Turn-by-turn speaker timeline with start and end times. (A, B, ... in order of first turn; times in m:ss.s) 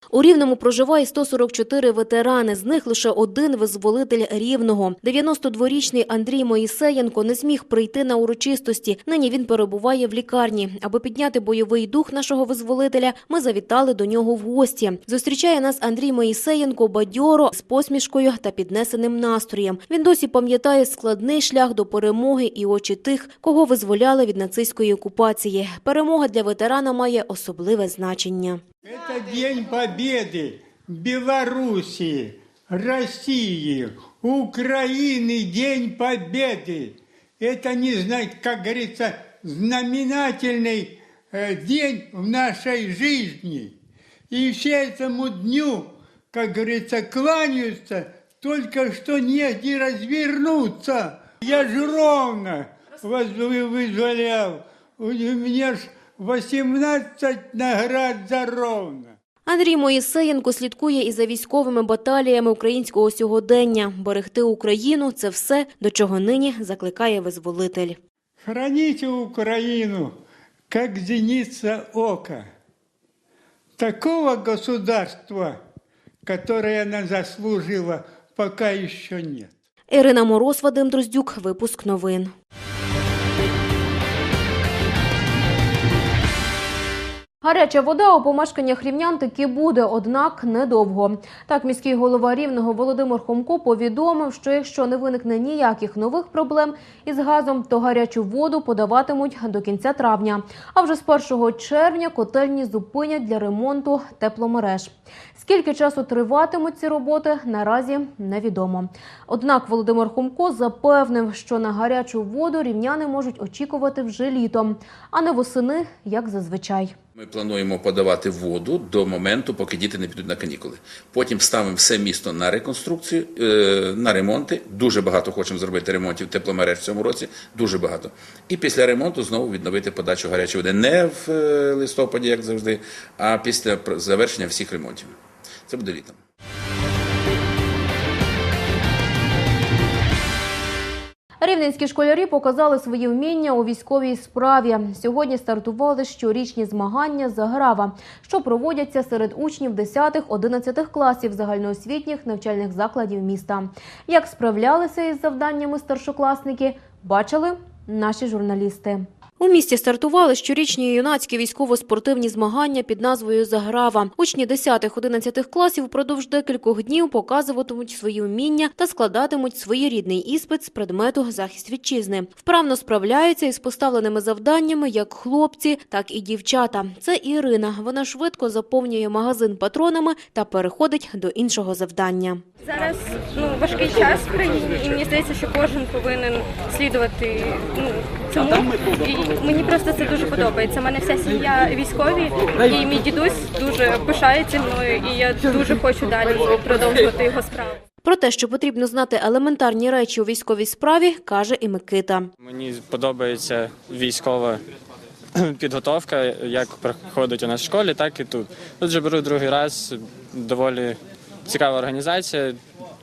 0:00.1-0:28.6 A
0:28.8-0:43.7 B
0:44.3-0:59.1 B
0:59.5-1:08.0 A
1:08.4-1:10.2 B
1:10.7-1:12.4 B
1:13.8-1:15.6 B
1:16.3-1:19.5 B
1:19.9-1:22.3 A
1:27.4-1:56.9 A
1:57.2-2:15.2 C
2:15.7-2:16.2 C
2:21.4-3:02.4 A
3:02.7-3:17.8 D
3:18.0-3:22.3 A
3:22.4-3:24.6 E
3:25.4-3:32.6 E